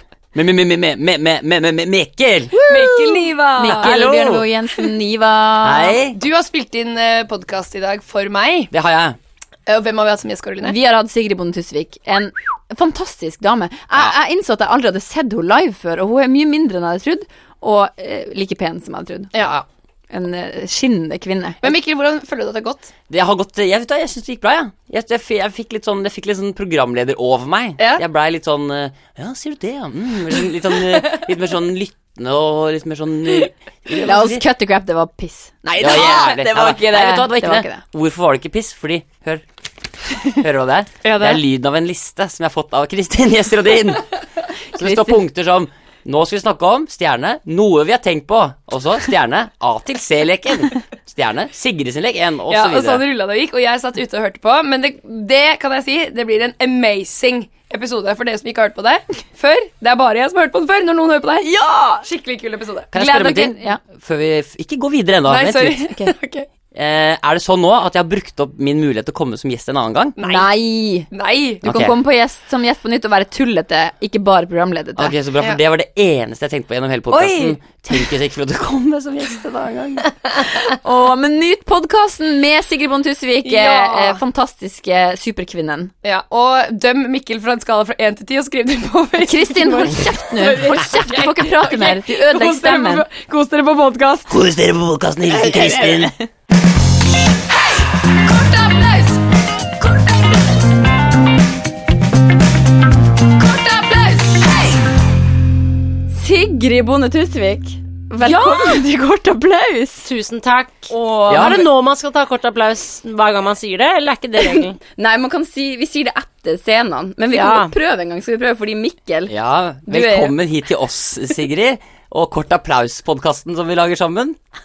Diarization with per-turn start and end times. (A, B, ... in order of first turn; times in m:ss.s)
0:00.3-0:02.6 A
0:02.6-0:06.0 B
0:02.6-0:04.0 C
0:03.6-0:04.4 A
0:05.6-0:06.2 A
0:06.1-0:08.7 C
0:08.7-0:09.2 A
0:09.6-0:10.7 C
0:10.6-0:19.3 B
0:19.3-0:19.6 C
0:20.1-0:21.7 B
0:21.6-0:22.9 C
0:23.1-0:34.4 A
0:33.9-0:37.8 B
0:35.8-0:39.4 A
0:40.3-0:44.1 A
0:41.0-0:41.4 C
0:44.7-0:53.0 A
0:44.8-0:45.2 B
0:52.5-1:02.9 C
1:02.9-1:05.8 A
1:02.9-1:03.8 B
1:05.3-1:06.5 C
1:06.7-1:10.2 A
1:10.2-1:10.5 C
1:10.2-1:11.1 B
1:11.1-1:11.6 C
1:11.6-1:15.1 B
1:11.6-1:12.0 A
1:15.0-1:20.1 A
1:17.1-1:17.5 C
1:20.5-1:25.9 B
1:23.4-1:24.2 C
1:26.0-1:34.3 C
1:29.2-1:33.0 B
1:34.3-1:36.1 A
1:35.3-1:36.3 C
1:37.3-1:39.2 C
1:39.8-1:40.4 C
1:43.2-1:44.9 C
1:46.1-1:50.1 B
1:48.2-1:48.8 C
1:50.0-1:54.8 D
1:50.9-1:51.5 C
1:51.3-1:51.5 A
1:54.4-1:59.3 B
1:57.3-1:57.7 D
1:59.3-2:04.4 A
1:59.9-2:00.3 B